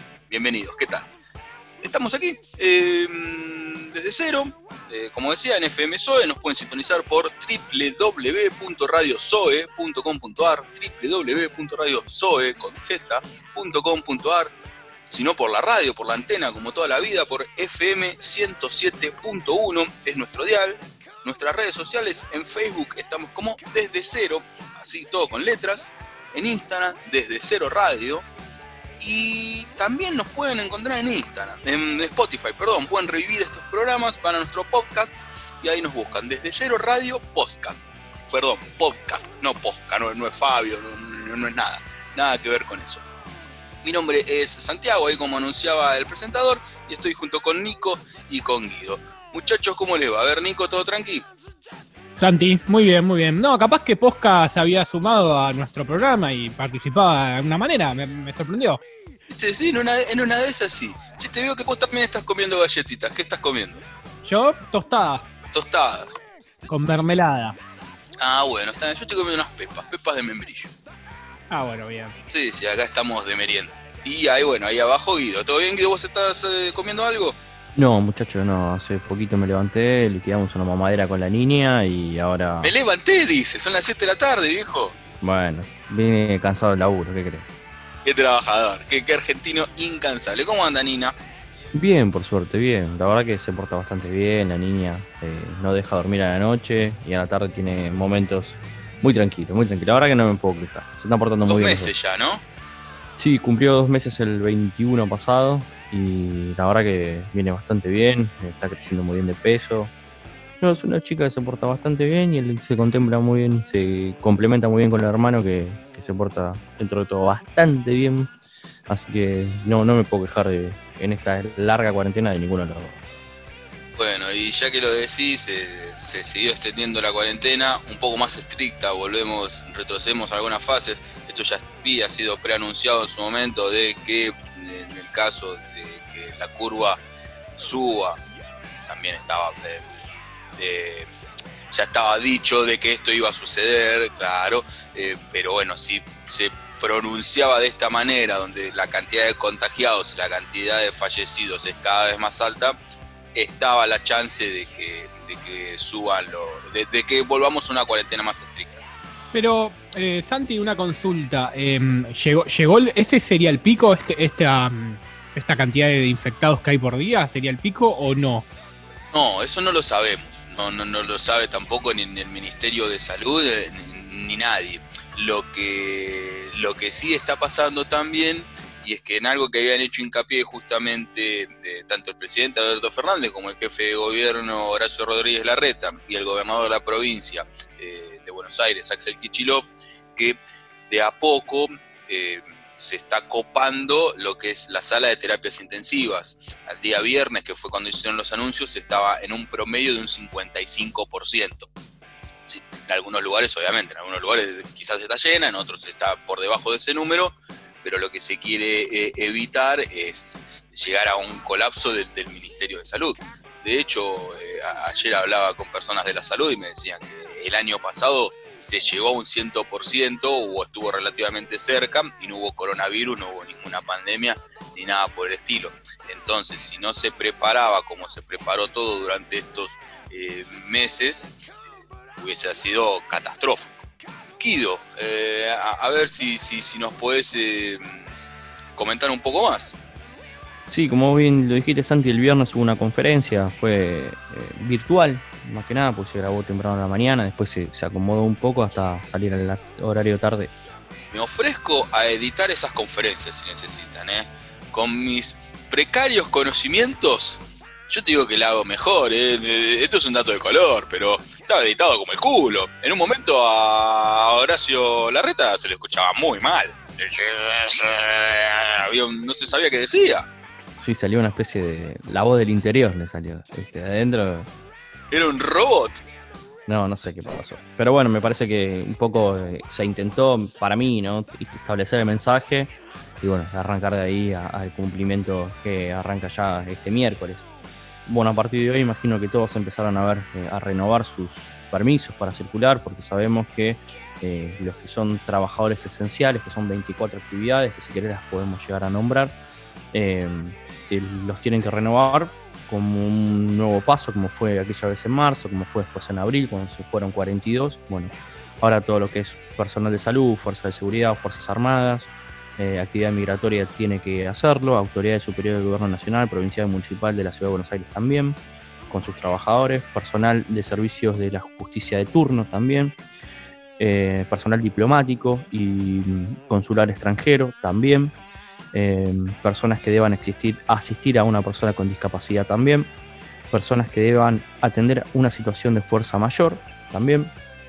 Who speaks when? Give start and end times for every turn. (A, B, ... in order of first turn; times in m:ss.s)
0:00.3-0:01.1 A
0:01.8-0:14.5 A
0:15.1-0:28.3 A
0:29.0-0:37.8 A
0:38.3-0:43.0 A
0:43.8-0:51.3 A
0:52.2-0:58.8 B
0:59.3-1:03.8 A
1:04.2-1:05.2 B
1:05.5-1:06.2 A
1:06.7-1:07.6 B
1:08.2-1:10.7 A
1:11.5-1:12.2 B
1:12.3-1:17.4 A
1:17.8-1:22.7 C
1:22.6-1:25.0 A
1:25.2-1:27.5 C
1:28.0-1:31.1 A
1:31.7-1:41.9 C
1:41.5-1:42.4 A
1:43.2-1:49.9 C
1:50.6-1:58.3 C
1:58.9-2:03.0 C
2:04.0-2:17.0 A
2:17.6-2:18.2 A
2:18.8-2:20.0 A
2:20.6-2:21.1 A
2:21.7-2:32.8 A
2:33.4-2:38.8 A
2:39.3-2:48.5 B
2:49.1-3:10.4 A
3:10.9-3:21.7 A
3:22.5-3:51.6 A
3:52.2-3:53.9 A
3:54.4-3:58.1 A
3:58.8-3:59.8 A
4:00.7-4:10.5 C
4:11.1-4:30.3 A
4:30.8-4:34.5 C
4:35.1-4:36.0 A
4:36.7-4:47.4 C
4:48.1-4:59.4 C
4:59.9-5:18.4 C
5:18.9-5:23.0 C
5:23.8-5:28.1 C
5:28.7-5:32.9 C
5:33.5-5:37.3 C